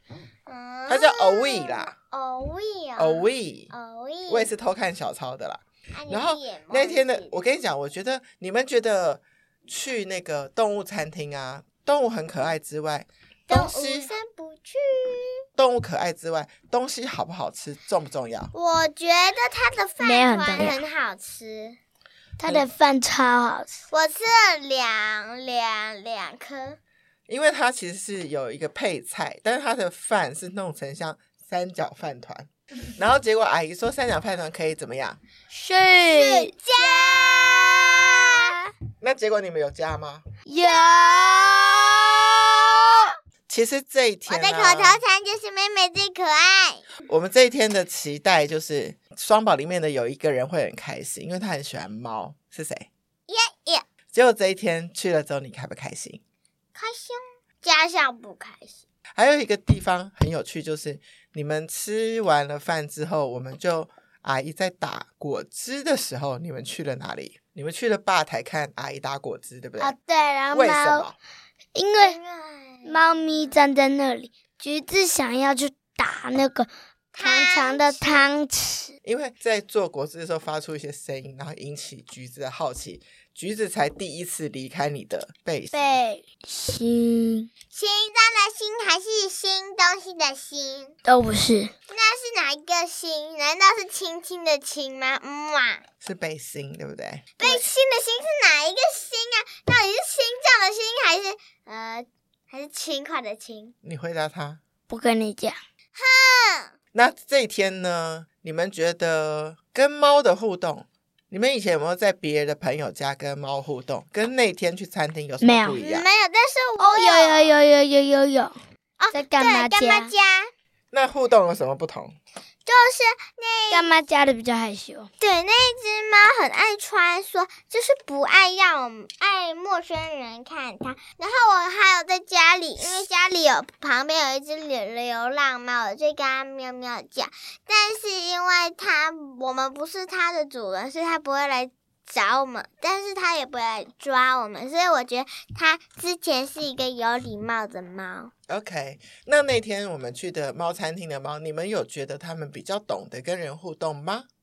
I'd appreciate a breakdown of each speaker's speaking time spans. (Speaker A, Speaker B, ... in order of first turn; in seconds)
Speaker A: 0.5-4.5, 5.9-7.5, 13.5-15.4, 18.5-21.8, 23.9-26.8, 36.1-38.5, 40.6-42.2, 44.3-46.8, 53.3-53.9, 56.8-58.8, 72.0-73.6, 77.2-78.3, 87.7-91.0, 91.9-95.8, 97.4-103.7, 106.0-106.7, 115.8-117.6, 119.0-120.5, 122.7-124.0, 125.2-148.3
Speaker B: 0.9-1.9, 3.0-3.7, 4.3-14.1, 15.6-18.5, 27.3-35.2, 39.0-40.2, 43.5-45.0, 47.1-52.9, 54.1-56.2, 59.1-69.9, 70.5-71.2, 79.0-86.0, 96.0-97.6, 103.8-104.6, 106.9-116.0, 120.9-122.2, 148.5-154.3
Speaker C: 20.0-20.8, 22.4-23.8, 35.5-36.5, 40.5-43.0, 69.8-71.1, 71.8-72.2, 72.8-78.9, 85.7-87.5, 91.0-91.7, 104.9-105.6, 115.4-115.8, 116.8-118.5, 119.1-120.1, 123.7-125.1